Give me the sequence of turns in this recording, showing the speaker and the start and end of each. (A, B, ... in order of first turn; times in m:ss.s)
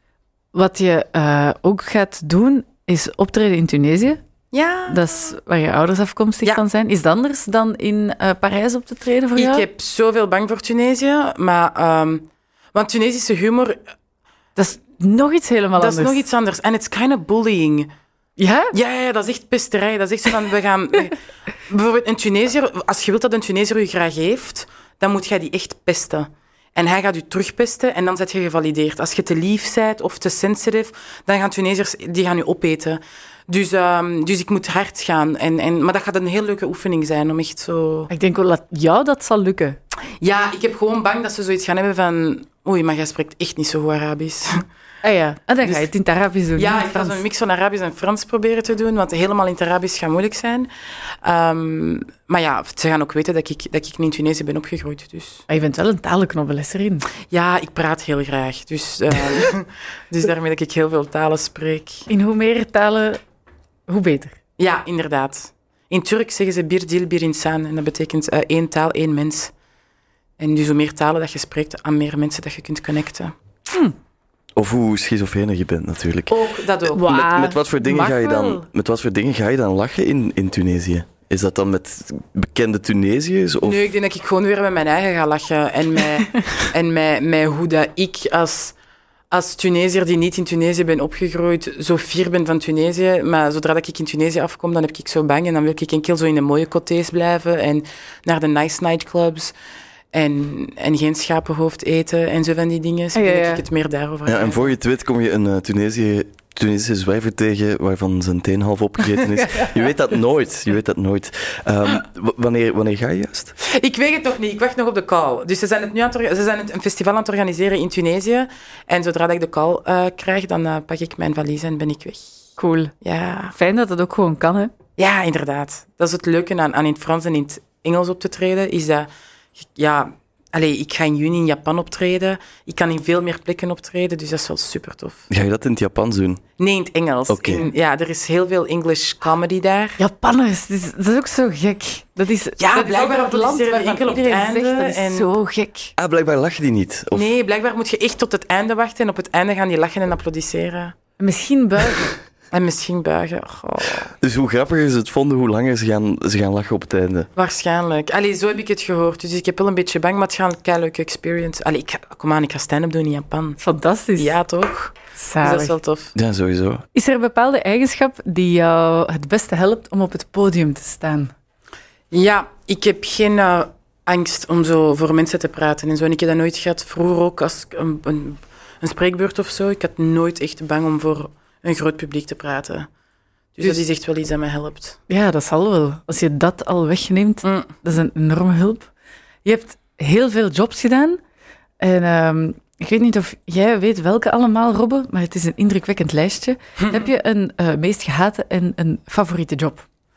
0:00.5-0:04.2 A
0:04.5-0:05.0 B
0:04.9-0:09.6 A
0:09.4-0:13.8 B
0:14.6-0:16.2 A
0:15.8-0:17.9 B
0:18.4-0:18.7 A
0:18.7-0:38.1 B
0:38.1-0:39.8 A
0:40.2-0:44.6 B
0:45.0-0:47.2 A
0:45.6-0:45.9 B
0:46.6-0:50.7 B
0:51.2-0:55.4 B
0:55.5-0:57.1 A
0:57.3-1:02.1 B
1:02.1-1:03.2 A
1:03.9-1:04.4 A
1:04.6-1:09.5 B
1:10.4-1:13.3 B
1:14.6-1:16.4 C
1:16.3-1:17.1 B
1:16.9-1:17.7 A
1:17.0-1:23.9 C
1:17.8-1:18.6 B
1:23.6-1:28.8 B
1:29.3-1:39.5 B
1:40.1-1:44.7 B
1:43.1-1:43.6 A
1:44.3-1:53.6 C
1:53.6-2:02.2 B
2:02.6-2:02.9 A
2:03.0-2:03.6 B
2:03.5-2:04.7 A
2:05.0-2:15.3 B
2:15.3-2:16.4 C
2:16.6-2:20.0 B
2:17.3-2:17.7 C
2:20.0-2:25.9 A
2:22.6-2:25.3 B
2:26.0-2:27.3 C
2:27.1-2:30.9 B
2:31.2-2:32.2 A
2:32.5-2:34.1 B
2:34.2-2:37.3 C
2:37.4-2:43.6 B
2:43.6-2:44.4 A
2:44.2-2:46.2 B
2:45.1-2:45.7 A
2:46.2-2:46.8 C
2:47.0-2:51.3 A
2:52.1-3:02.9 B
3:03.6-3:05.0 B
3:05.1-3:08.9 A
3:07.4-3:07.8 B
3:09.4-3:11.2 A
3:11.8-3:19.8 A
3:16.8-3:17.1 B